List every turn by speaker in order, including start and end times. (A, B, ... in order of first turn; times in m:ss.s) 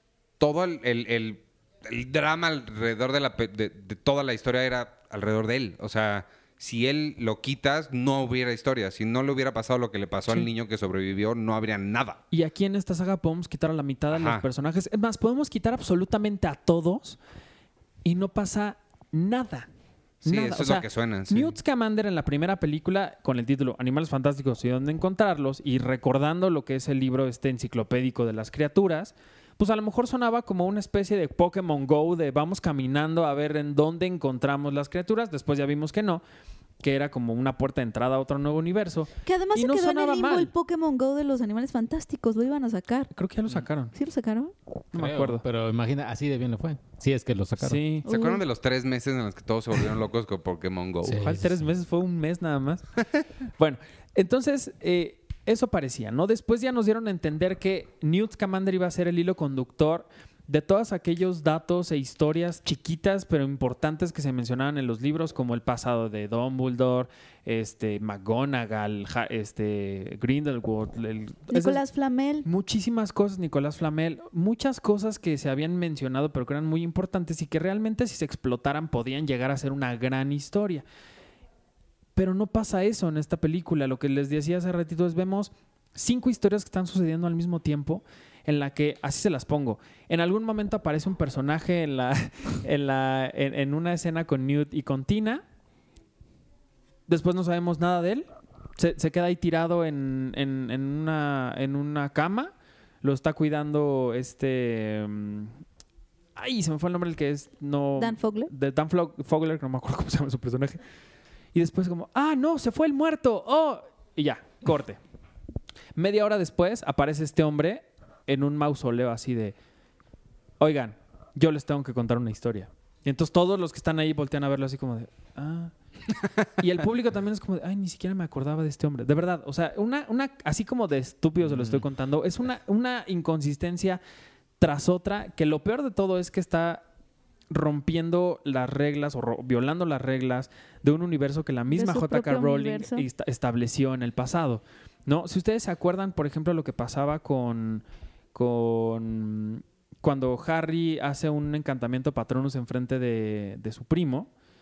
0:00.4-0:12.2 A
0:12.3-0:17.2 B
0:14.1-0:14.4 A
0:18.0-0:19.7 B
0:20.2-0:21.5 A
0:20.2-0:36.2 B
0:36.8-0:40.5 B
0:39.2-0:43.1 C
0:43.2-0:43.9 B
0:43.9-0:44.5 C
0:44.9-0:45.4 B
0:44.9-0:47.8 D
0:47.6-0:48.1 B
0:48.0-0:48.4 C
0:48.1-0:51.3 A
0:51.0-0:51.6 D
0:51.1-0:52.9 B
0:53.6-1:11.8 B
1:11.5-1:12.5 C
1:12.4-1:20.8 B
1:22.2-1:35.4 B
1:37.1-1:45.6 B
1:46.4-1:50.8 B
1:48.0-1:48.5 C
1:51.5-1:55.0 B
1:56.0-1:59.6 B
2:00.6-2:05.7 B
2:06.6-2:14.0 B
2:11.4-2:11.8 D
2:14.6-2:16.8 B
2:17.5-2:34.3 B
2:21.7-2:23.1 C